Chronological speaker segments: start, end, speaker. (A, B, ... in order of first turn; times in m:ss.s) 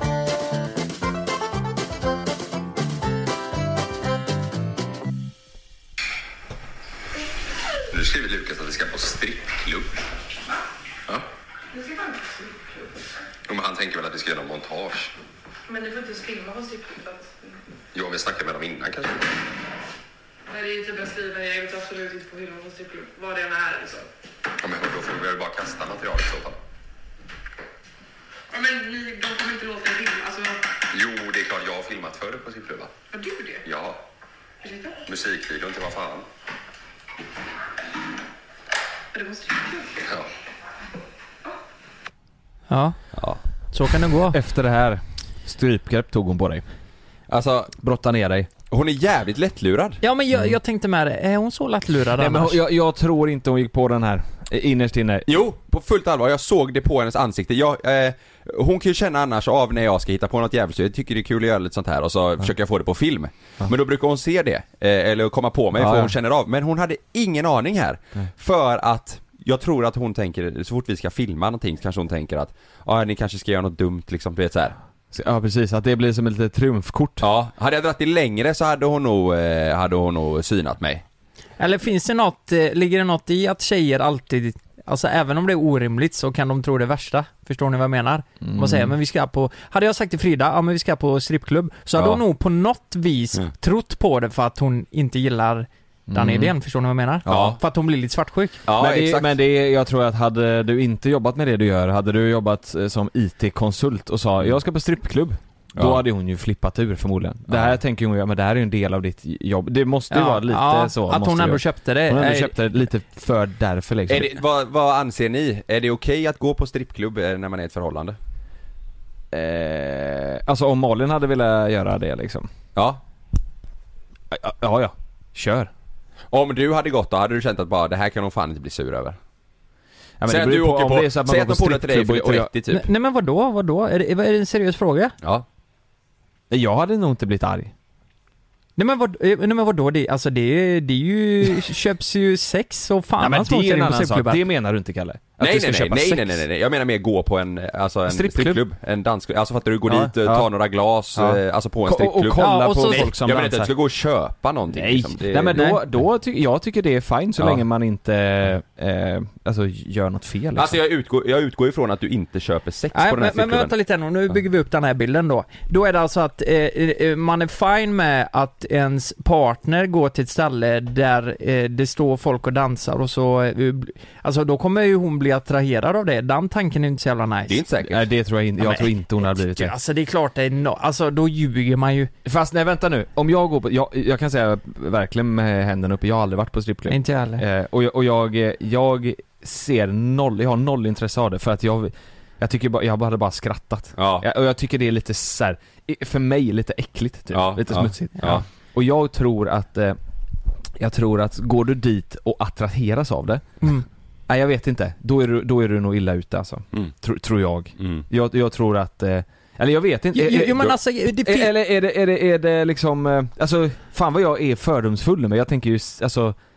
0:07.9-0:09.6 A
0:11.7-0:12.9 B
0:13.5-0:15.1 A
0:15.7-0:17.6 B
0:18.0-0:19.2 A
0:20.5-0:24.1 B
0:24.6-0:26.6 A
0:28.5-0:30.8 B
0:30.9-0:32.9 A
0:33.1-0:33.6 B
0:33.7-0:34.0 A
0:34.6-0:35.0 B
0:35.1-0:36.2 A
0:39.1-0:40.1 B
0:42.7-0:44.4 C
0:43.1-0:43.4 D
0:44.3-0:46.6 E
0:47.3-0:47.7 D
0:47.7-0:48.5 E
0:48.7-0:50.0 D
0:50.0-0:52.6 C
0:52.2-0:55.3 E
0:55.3-1:14.8 D
1:05.7-1:06.1 E
1:15.1-1:17.2 E
1:17.2-1:21.0 D
1:21.6-1:38.6 C
1:28.4-1:28.9 E
1:32.0-1:32.2 D
1:36.1-1:36.5 E
1:37.2-1:37.6 E
1:37.3-1:37.6 D
1:38.6-1:39.3 D
1:38.7-1:54.3 E
1:45.8-1:46.0 D
1:47.5-1:47.8 D
1:50.1-1:52.6 C
1:54.1-1:58.2 D
1:59.3-2:02.5 E
2:02.8-2:03.0 D
2:04.3-2:05.7 E
2:06.3-2:09.2 D
2:10.2-2:12.5 E
2:10.2-2:12.8 D
2:12.7-2:15.2 C
2:16.5-2:17.7 E
2:18.8-2:24.4 C
2:23.2-2:26.4 E
2:25.4-2:35.6 D
2:28.1-2:28.6 E
2:29.8-2:30.5 E
2:31.1-2:33.7 E
2:32.3-2:33.1 C
2:34.7-2:40.8 E
2:35.5-2:35.8 C
2:37.4-2:37.6 D
2:40.6-2:43.7 D
2:42.9-2:57.6 C
2:57.5-2:58.1 D
2:57.8-2:59.7 E
2:58.6-3:02.1 C
3:02.2-3:20.0 E
3:06.9-3:07.4 C
3:14.0-3:14.2 D
3:17.3-3:18.4 D
3:20.8-3:23.7 E
3:24.3-3:36.4 E
3:27.8-3:28.0 D
3:30.1-3:31.5 C